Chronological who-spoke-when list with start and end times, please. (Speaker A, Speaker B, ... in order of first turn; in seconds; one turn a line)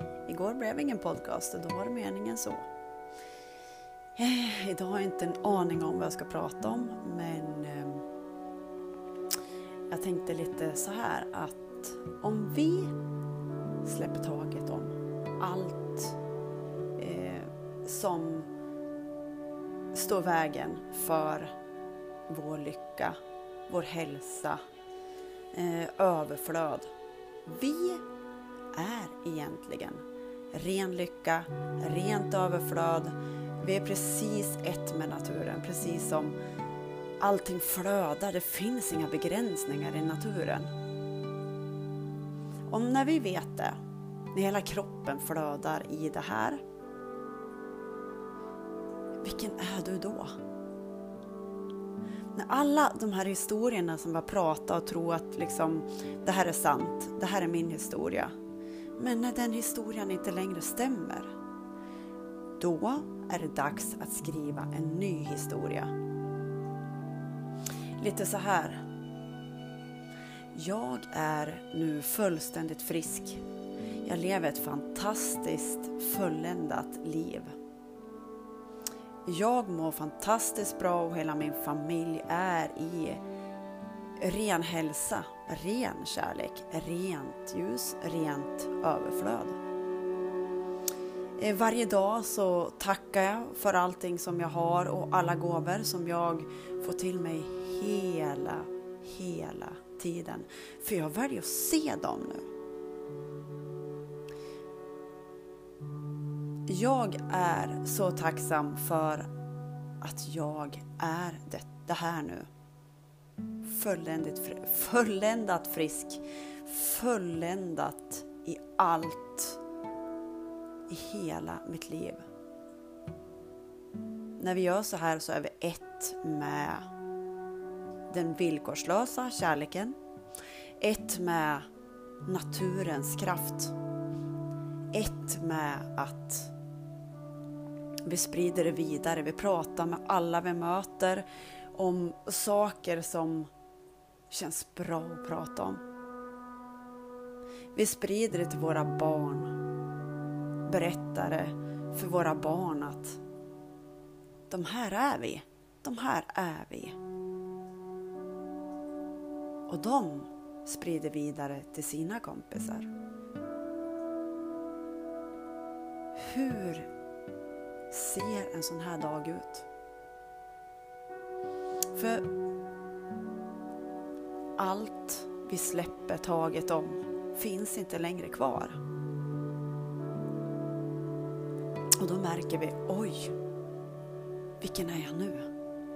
Speaker A: 0.3-2.6
Speaker A: 4.2-8.0
Speaker A: 9.9-12.9
Speaker A: 13.8-16.2
Speaker A: 17.0-18.5
Speaker A: 19.9-21.5
Speaker A: 22.3-23.2
Speaker A: 23.7-24.6
Speaker A: 25.5-26.9
Speaker A: 27.4-28.0
Speaker A: 28.7-36.4
Speaker A: 37.2-40.7
Speaker A: 42.7-43.8
Speaker A: 44.3-46.6
Speaker A: 49.2-50.4
Speaker A: 52.3-58.3
Speaker A: 59.0-61.3
Speaker A: 62.6-65.9
Speaker A: 68.0-68.8
Speaker A: 70.5-73.4
Speaker A: 74.0-77.5
Speaker A: 79.2-83.2
Speaker A: 84.2-89.6
Speaker A: 91.4-102.5
Speaker A: 106.7-109.3
Speaker A: 110.0-112.5
Speaker A: 113.6-119.6
Speaker A: 120.9-122.2
Speaker A: 124.4-126.9
Speaker A: 128.1-129.9
Speaker A: 130.8-131.7
Speaker A: 132.2-133.7
Speaker A: 134.9-136.5
Speaker A: 138.1-143.5
Speaker A: 144.3-145.8
Speaker A: 147.7-149.5
Speaker A: 150.7-153.2
Speaker A: 154.5-157.0
Speaker A: 159.7-162.9
Speaker A: 166.2-166.9
Speaker A: 167.9-169.7
Speaker A: 171.9-172.3
Speaker A: 174.6-178.8
Speaker A: 182.0-183.3
Speaker A: 184.6-185.4